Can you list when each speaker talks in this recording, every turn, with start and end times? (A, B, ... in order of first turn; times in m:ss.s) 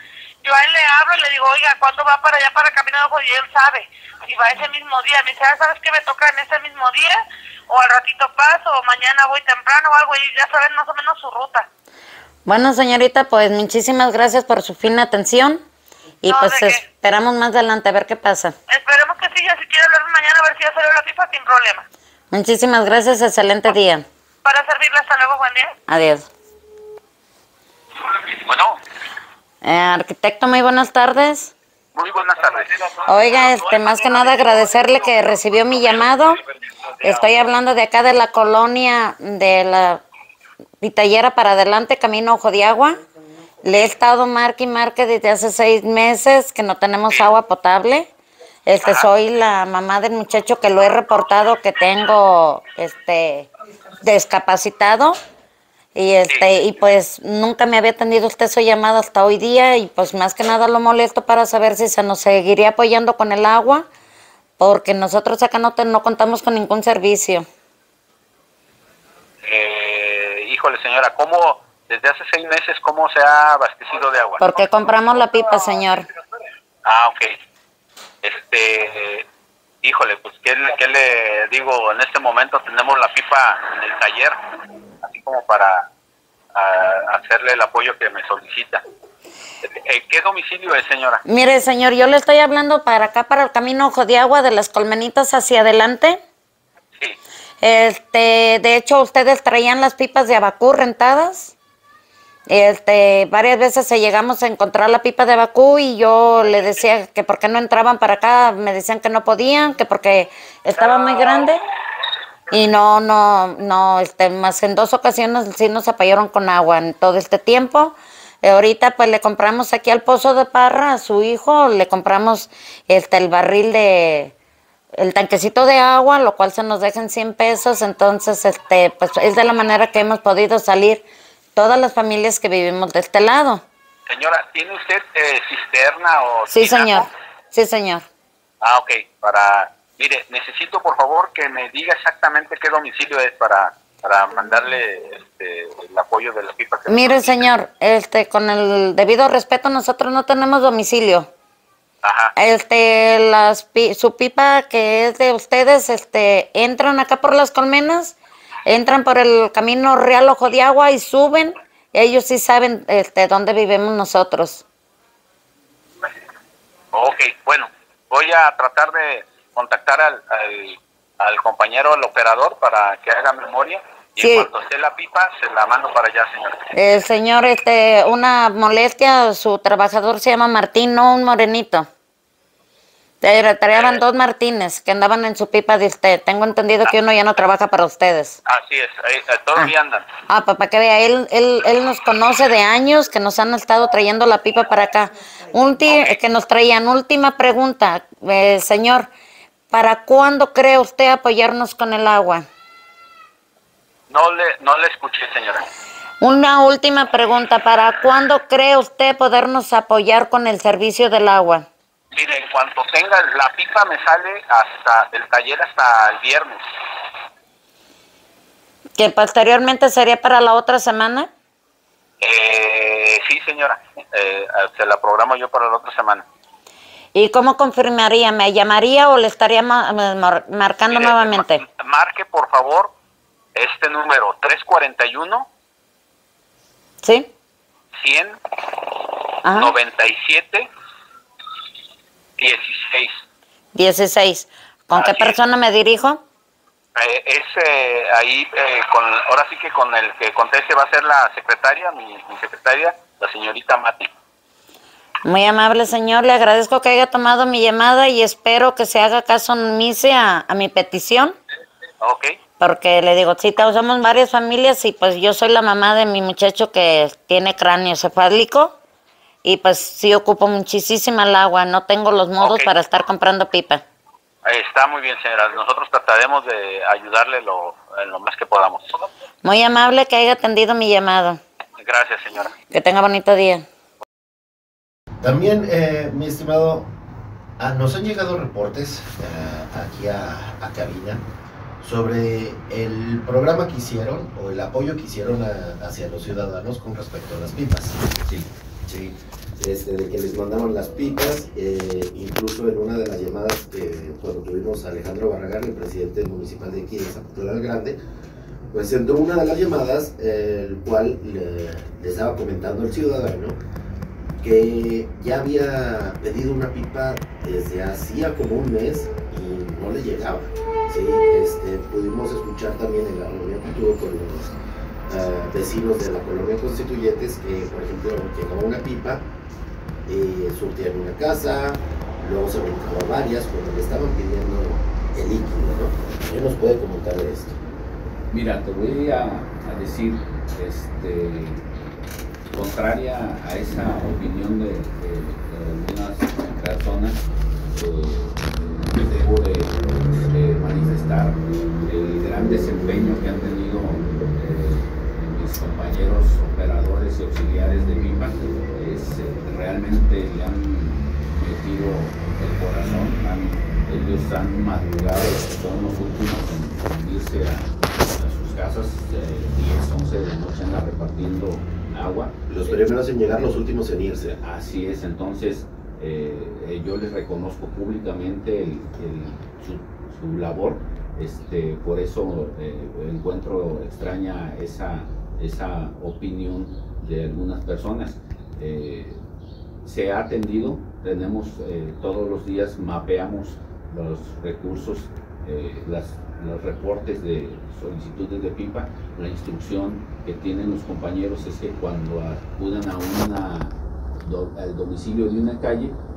0:00.4-0:11.7 A
0:12.4-0:15.6 B
0:16.2-0:18.5 B
0:16.2-0:16.8 A
0:18.7-0:21.8 A
0:22.3-0:24.0 B
0:24.4-0:25.8 A
0:25.9-0:26.3 B
0:28.4-0:28.8 C
0:29.6-0:31.5 B
0:31.9-0:34.2 C
0:33.1-0:36.4 B
0:37.0-0:40.0 B
0:40.8-0:43.0 B
0:43.6-0:48.1 B
0:48.6-0:53.5 B
0:54.0-0:55.2 B
0:55.9-1:03.9 B
1:04.6-1:07.4 B
1:09.4-1:14.5 C
1:14.4-1:16.0 B
1:16.8-1:17.4 C
1:18.2-1:19.2 C
1:19.8-1:24.4 C
1:25.0-1:25.8 C
1:26.5-1:28.8 C
1:29.6-1:31.2 C
1:31.2-1:36.2 B
1:37.6-1:41.5 B
1:42.5-1:51.6 B
1:50.8-1:51.5 C
1:52.5-2:04.3 B
2:05.0-2:11.0 B
2:11.6-2:13.6 B
2:14.1-2:17.1 C
2:16.5-2:18.0 B
2:18.6-2:27.5 C
2:26.9-2:31.3 B
2:32.0-2:32.3 C
2:32.4-2:44.6 B
2:46.9-2:56.7 C
2:54.2-2:54.5 B
2:56.7-3:01.9 B
3:03.2-3:08.4 B
3:03.7-3:04.0 C
3:08.4-3:10.1 C
3:10.3-3:19.1 B
3:15.8-3:16.2 C
3:19.7-3:22.4 B
3:24.1-3:25.6 C
3:26.2-3:31.7 B
3:32.1-3:36.6 C
3:39.0-3:41.3 B
3:42.2-3:46.2 C
3:47.1-3:51.6 B
3:50.9-3:52.9 C
3:53.5-3:55.5 C
3:57.0-3:57.3 B
3:58.0-3:58.4 C
3:59.4-3:59.7 B
3:59.5-4:00.7 C
4:02.4-4:03.1 C
4:03.7-4:06.2 B
4:04.9-4:05.4 C
4:07.0-4:14.1 C
4:15.2-4:21.3 B
4:22.0-4:22.4 C
4:22.6-4:28.8 B
4:29.4-4:33.8 B
4:32.4-4:32.7 C
4:34.4-4:39.1 C
4:39.4-4:41.4 B
4:41.8-4:42.5 C
4:42.7-4:43.6 B
4:45.2-4:46.9 D
4:47.6-4:51.2 D
4:51.8-4:58.0 D
4:58.2-4:58.5 E
4:58.9-5:08.0 D
5:08.7-5:13.6 D
5:14.4-5:24.5 D
5:25.1-5:29.2 D
5:30.1-5:37.6 D
5:38.3-5:41.6 E
5:42.5-5:47.2 E
5:47.7-6:12.8 E
6:12.5-6:14.4 D
6:14.3-6:29.2 E
6:29.8-6:46.0 E